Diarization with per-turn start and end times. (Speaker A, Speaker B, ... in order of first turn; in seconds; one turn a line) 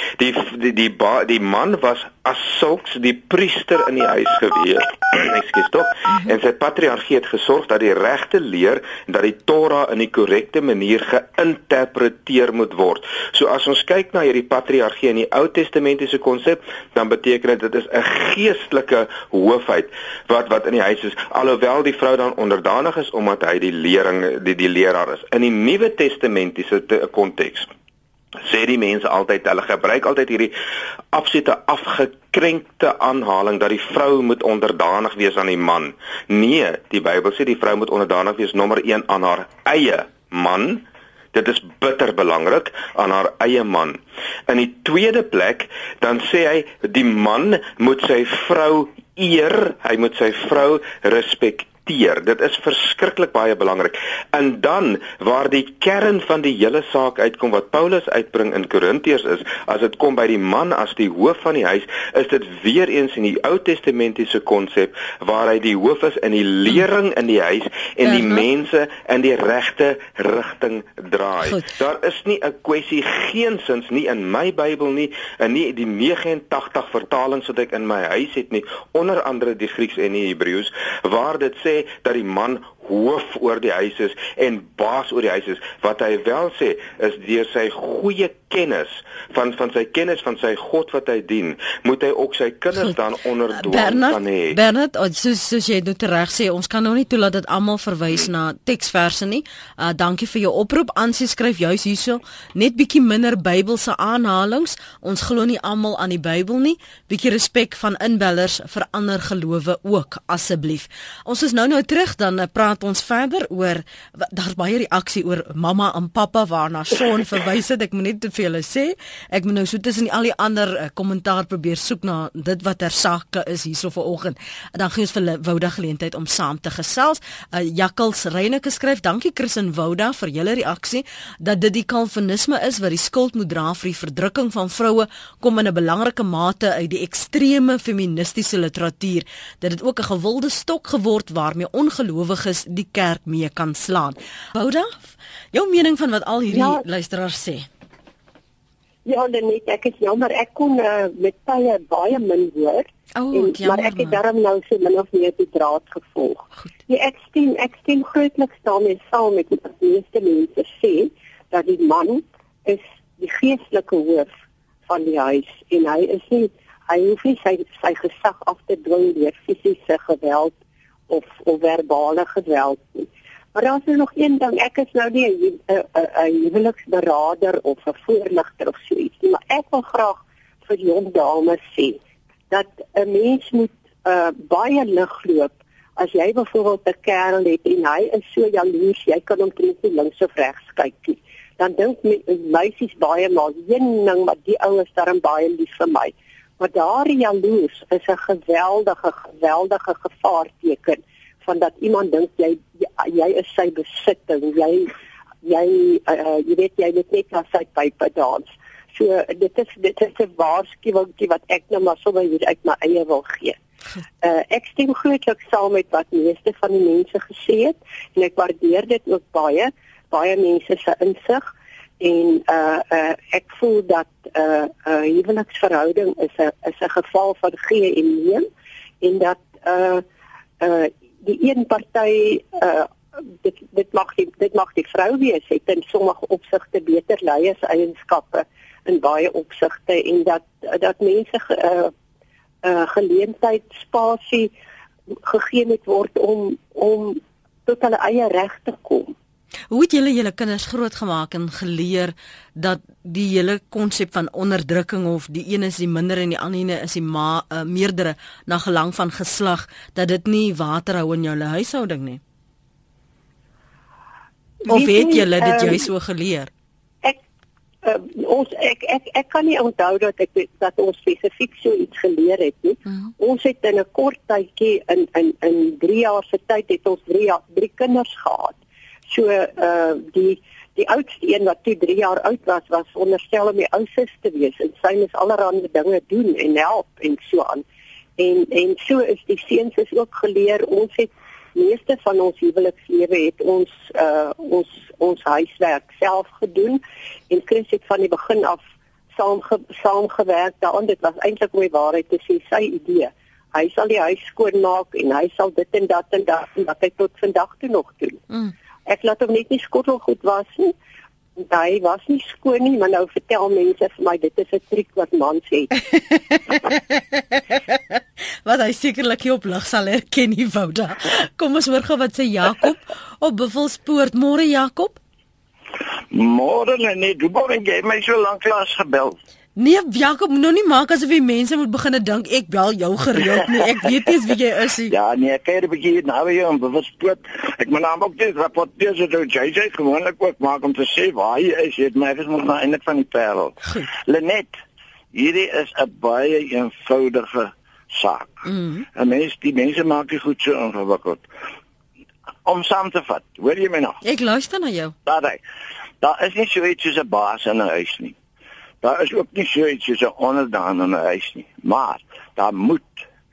Speaker A: 0.2-27.7
Speaker A: 28.4-30.5
Speaker A: 31.1-94.6
Speaker B: 68.0-68.5
Speaker B: 71.4-71.7
Speaker B: 93.5-147.7
Speaker C: 146.5-146.8
Speaker C: 149.1-164.3
Speaker B: 153.2-154.2
Speaker C: 164.9-170.6
Speaker C: 171.1-182.0
Speaker C: 182.5-213.6
Speaker C: 214.2-228.5
Speaker C: 229.0-230.0
Speaker C: 230.6-241.9
Speaker C: 242.6-244.5
Speaker C: 245.1-249.1
Speaker B: 249.7-262.2
Speaker C: 264.6-265.9
Speaker B: 264.7-266.5
Speaker C: 267.8-278.6
Speaker C: 279.1-287.6
Speaker C: 288.2-298.6
Speaker C: 299.1-308.2
Speaker C: 308.9-310.7
Speaker C: 311.4-315.7
Speaker B: 315.9-325.0
Speaker D: 326.1-329.2
Speaker B: 329.6-334.9
Speaker D: 334.9-344.6
Speaker D: 345.1-348.4
Speaker B: 348.4-348.9
Speaker D: 348.9-351.3
Speaker D: 352.4-354.0
Speaker B: 354.0-354.9
Speaker D: 355.1-355.4
Speaker D: 356.0-358.2
Speaker D: 358.8-363.1